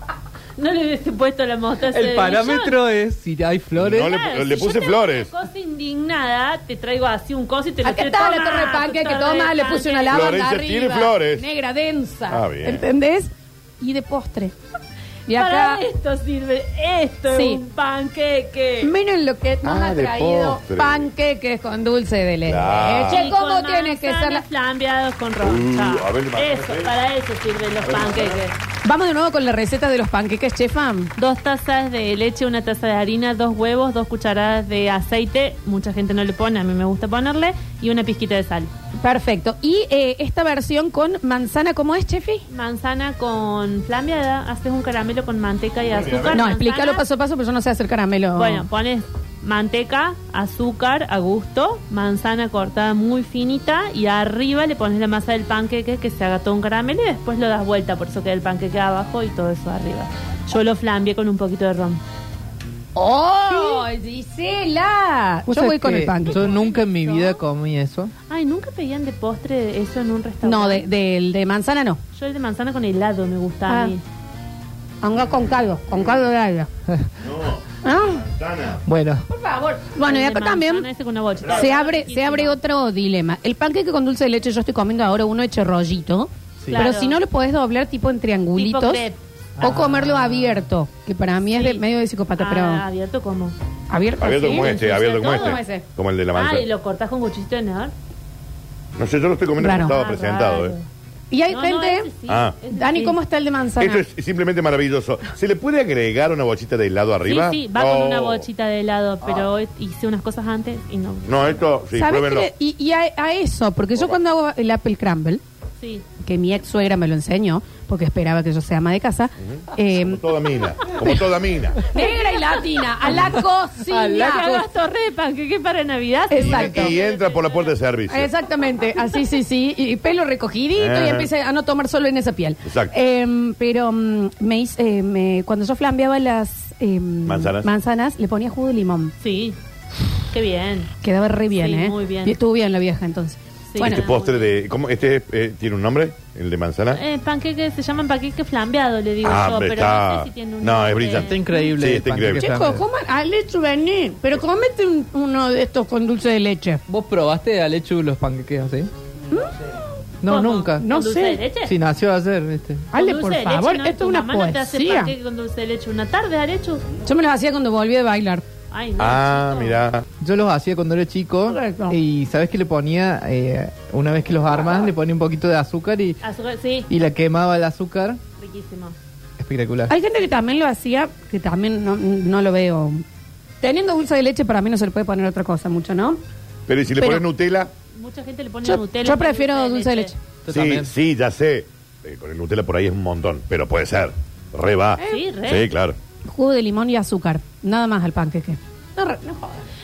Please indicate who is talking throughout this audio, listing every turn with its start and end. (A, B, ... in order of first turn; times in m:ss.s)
0:00.6-0:02.8 A
0:01.9-0:04.1 B
0:03.8-0:05.3 C
0:04.0-0:10.4 A
0:07.8-0:14.5 D
0:10.1-0:11.4 C
0:12.3-0:12.8 C
0:15.3-0:15.8 D
0:15.3-0:18.9 A
0:17.3-0:17.6 D
0:18.8-0:24.4 D
0:19.6-0:21.1 C
0:22.4-0:23.2 C
0:23.1-0:28.5 A
0:25.4-0:26.9 C
0:27.8-0:28.4 C
0:28.8-0:31.1 D
0:31.2-0:38.7 A
0:39.0-0:42.4 D
0:42.5-0:47.0 A
0:45.9-0:46.4 C
0:46.3-0:48.6 D
0:48.4-1:02.0 A
1:03.0-1:07.4 D
1:03.5-1:03.8 A
1:05.5-1:08.1 B
1:08.3-1:10.8 A
1:10.4-1:12.0 D
1:12.1-1:14.0 A
1:15.0-1:16.7 D
1:15.2-1:16.2 C
1:17.2-1:18.8 C
1:17.8-1:18.2 D
1:18.9-1:19.2 B
1:19.3-1:20.8 D
1:20.0-1:22.6 A
1:21.4-1:21.7 C
1:21.5-1:29.0 D
1:26.7-1:27.2 A
1:28.6-1:29.2 A
1:29.6-1:30.6 B
1:29.6-1:32.8 D
1:31.5-1:31.8 A
1:32.4-1:33.5 A
1:33.9-1:35.8 D
1:34.2-1:36.6 C
1:34.4-1:35.6 A
1:36.3-1:37.9 A
1:39.0-1:40.7 C
1:39.6-1:39.9 D
1:39.7-1:40.8 A
1:41.3-1:42.1 D
1:41.5-1:43.2 A
1:42.3-1:42.5 C
1:42.7-1:44.0 D
1:43.8-1:48.4 C
1:47.2-1:51.6 A
1:51.3-1:52.5 C
1:51.9-1:55.4 D
1:55.8-1:56.0 A
1:56.2-2:00.2 D
1:59.4-2:01.8 C
2:00.9-2:01.2 D
2:01.9-2:04.5 D
2:02.0-2:02.4 A
2:03.9-2:04.6 B
2:04.1-2:07.7 A
2:06.3-2:06.9 D
2:06.4-2:08.3 C
2:08.1-2:19.1 D
2:10.8-2:11.3 C
2:12.6-2:12.9 C
2:17.2-2:17.7 C
2:19.2-2:19.6 A
2:20.3-2:20.9 A
2:21.0-2:24.0 D
2:21.5-2:22.4 A
2:23.7-2:24.6 A
2:23.8-2:27.0 C
2:26.9-2:31.6 A
2:29.2-2:32.4 C
2:31.2-2:32.8 B
2:32.4-2:36.8 D
2:36.9-2:38.9 B
2:40.2-2:40.8 B
2:40.3-2:41.7 A
2:40.8-2:41.4 D
2:41.6-2:42.9 B
2:42.9-2:45.1 D
2:42.9-2:46.8 A
2:47.0-2:48.4 D
2:48.7-2:49.8 A
2:49.0-2:50.0 C
2:50.2-2:56.2 B
2:51.5-2:52.0 D
2:56.2-2:56.9 A
2:56.9-2:58.2 B
2:58.4-2:58.9 A
2:59.4-2:59.9 B
2:59.9-3:03.0 D
3:03.6-3:06.2 D
3:06.7-3:07.7 C
3:07.0-3:07.2 D
3:08.0-3:10.1 A
3:08.6-3:10.1 D
3:10.4-3:10.9 B
3:10.5-3:16.0 C
3:15.0-3:15.7 A
3:16.2-3:19.6 D